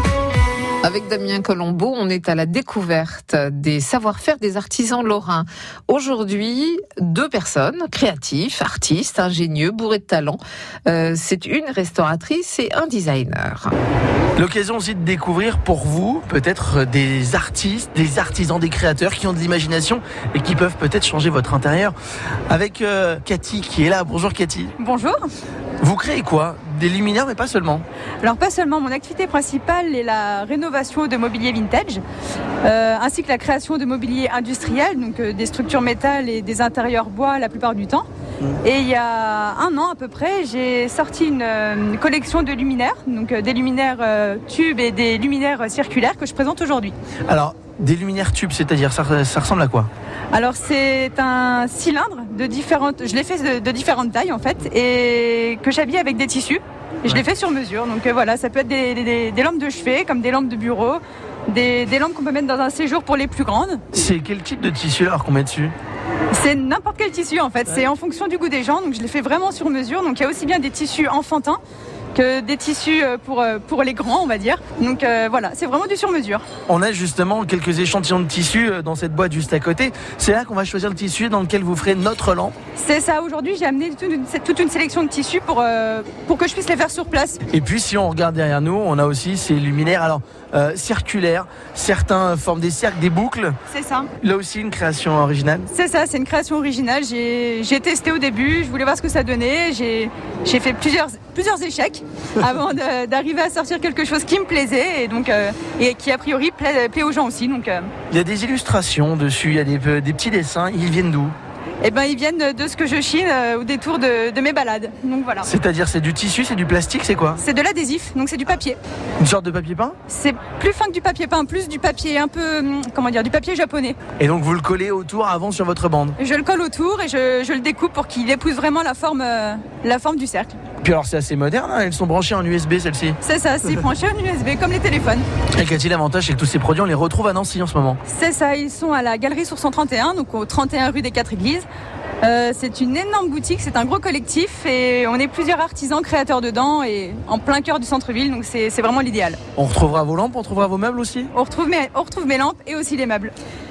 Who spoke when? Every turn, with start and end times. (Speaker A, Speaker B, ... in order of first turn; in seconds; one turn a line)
Speaker A: 0.8-13.7
Speaker B: 14.4-21.9
Speaker B: 22.5-24.7
Speaker C: 24.8-25.3
Speaker B: 25.8-27.8
Speaker C: 28.2-32.0
Speaker C: 32.6-38.1
Speaker C: 38.6-46.9
Speaker B: 47.3-49.9
Speaker C: 50.3-63.8
Speaker B: 63.9-65.7
Speaker C: 66.3-71.6
Speaker C: 72.1-76.4
Speaker B: 76.7-82.5
Speaker C: 82.8-87.4
Speaker B: 87.5-93.6
Speaker C: 93.7-94.1
Speaker B: 94.2-95.7
Speaker C: 95.7-107.9
Speaker B: 108.1-111.3
Speaker C: 111.8-115.5
Speaker B: 115.4-117.4
Speaker C: 117.4-118.8
Speaker B: 119.2-120.0
Speaker C: 120.1-124.0
Speaker B: 124.2-126.2
Speaker C: 126.2-130.6
Speaker B: 130.8-133.2
Speaker C: 133.2-135.2
Speaker B: 135.5-138.0
Speaker C: 138.1-141.7
Speaker C: 142.2-149.4
Speaker B: 149.6-151.3
Speaker C: 151.3-153.3